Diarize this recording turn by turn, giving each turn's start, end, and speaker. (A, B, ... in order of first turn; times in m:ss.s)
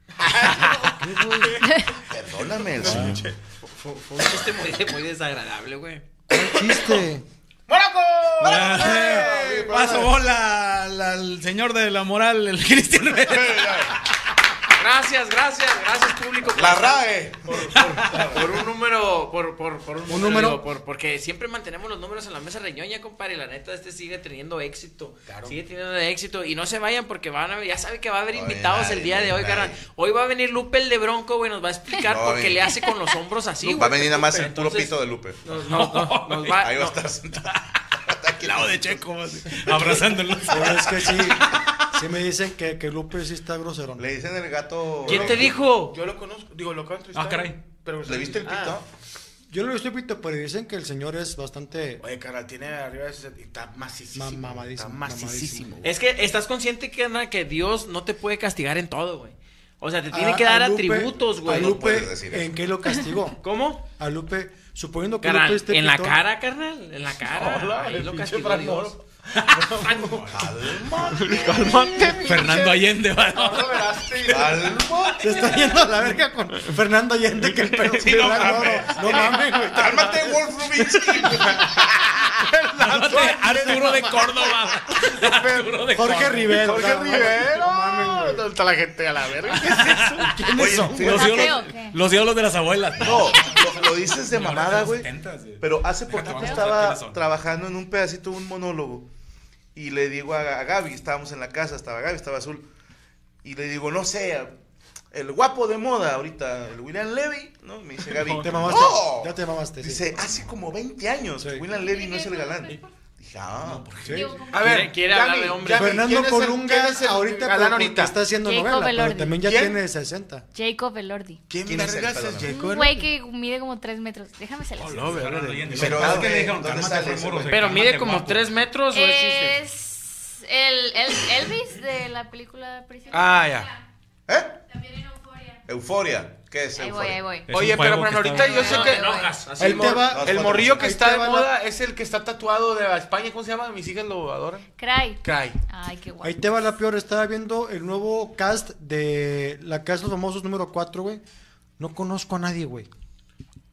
0:00.2-0:01.9 A
0:01.0-0:01.6 B
0:02.1-0:03.3 C
0:02.5-0:03.3 A
0:02.9-0:03.2 D
0:03.8-0:06.1 E
0:06.3-0:07.2 B
0:06.4-0:07.0 A
0:07.7-0:09.7 A
0:08.4-0:10.2 C
0:08.4-0:13.9 D
0:13.1-0:14.0 C
0:14.8-0:37.0 E
0:16.5-0:18.4 C
0:17.7-0:18.3 A
0:17.8-0:18.2 D
0:20.1-0:20.6 B
0:25.3-0:25.6 A
0:28.3-0:29.8 C
0:32.1-0:32.7 C
0:33.6-0:35.4 C
0:35.6-0:36.6 D
0:36.6-0:40.0 C
0:38.4-0:41.9 D
0:40.5-0:44.1 B
0:44.0-0:45.6 C
0:45.0-0:45.9 E
0:45.0-0:48.8 A
0:47.1-0:47.6 D
0:48.0-0:48.8 C
0:49.5-0:52.0 B
0:52.0-0:55.9 A
0:54.1-0:55.7 B
0:55.8-1:02.0 E
1:00.1-1:03.4 B
1:01.4-1:02.5 C
1:03.4-1:03.8 E
1:04.0-1:06.2 B
1:05.2-1:09.0 E
1:07.3-1:10.3 A
1:09.3-1:10.2 D
1:09.8-1:10.2 E
1:10.3-1:12.0 C
1:10.9-1:15.1 A
1:12.1-1:14.3 D
1:14.3-1:15.5 C
1:15.2-1:20.4 B
1:17.8-1:18.2 A
1:18.0-1:19.0 D
1:18.0-1:21.8 C
1:18.9-1:19.4 A
1:22.3-1:25.8 A
1:22.8-1:26.8 D
1:23.1-1:24.3 B
1:25.9-1:28.4 B
1:26.5-1:30.5 A
1:29.5-1:37.2 D
1:30.2-1:31.3 B
1:30.6-1:31.6 C
1:31.0-1:32.0 F
1:33.0-1:39.1 C
1:36.4-1:36.7 F
1:39.7-1:42.6 C
1:43.4-1:44.5 C
1:45.1-1:53.9 C
1:48.4-1:50.1 B
1:51.4-1:51.6 B
1:51.6-1:52.9 F
1:53.6-1:54.2 D
1:54.0-1:54.4 B
1:54.0-1:54.9 F
1:54.5-1:58.1 A
1:54.5-1:56.0 E
1:55.7-2:00.4 B
1:58.4-1:59.4 F
1:59.4-1:59.8 A
2:00.5-2:01.4 F
2:01.5-2:03.1 A
2:01.6-2:02.5 C
2:02.5-2:05.2 F
2:04.8-2:06.4 A
2:05.0-2:08.5 D
2:05.7-2:07.8 C
2:07.5-2:09.6 E
2:08.9-2:13.6 F
2:13.1-2:13.8 A
2:14.3-2:14.6 C
2:14.9-2:15.5 F
2:15.7-2:17.4 C
2:16.7-2:17.5 F
2:17.5-2:18.8 D
2:17.5-2:24.6 A
2:18.3-2:20.2 E
2:18.4-2:19.4 F
2:19.6-2:21.5 B
2:20.1-2:20.9 C
2:24.8-2:26.4 F
2:25.2-2:25.6 A
2:26.2-2:31.2 B
2:31.8-2:32.9 B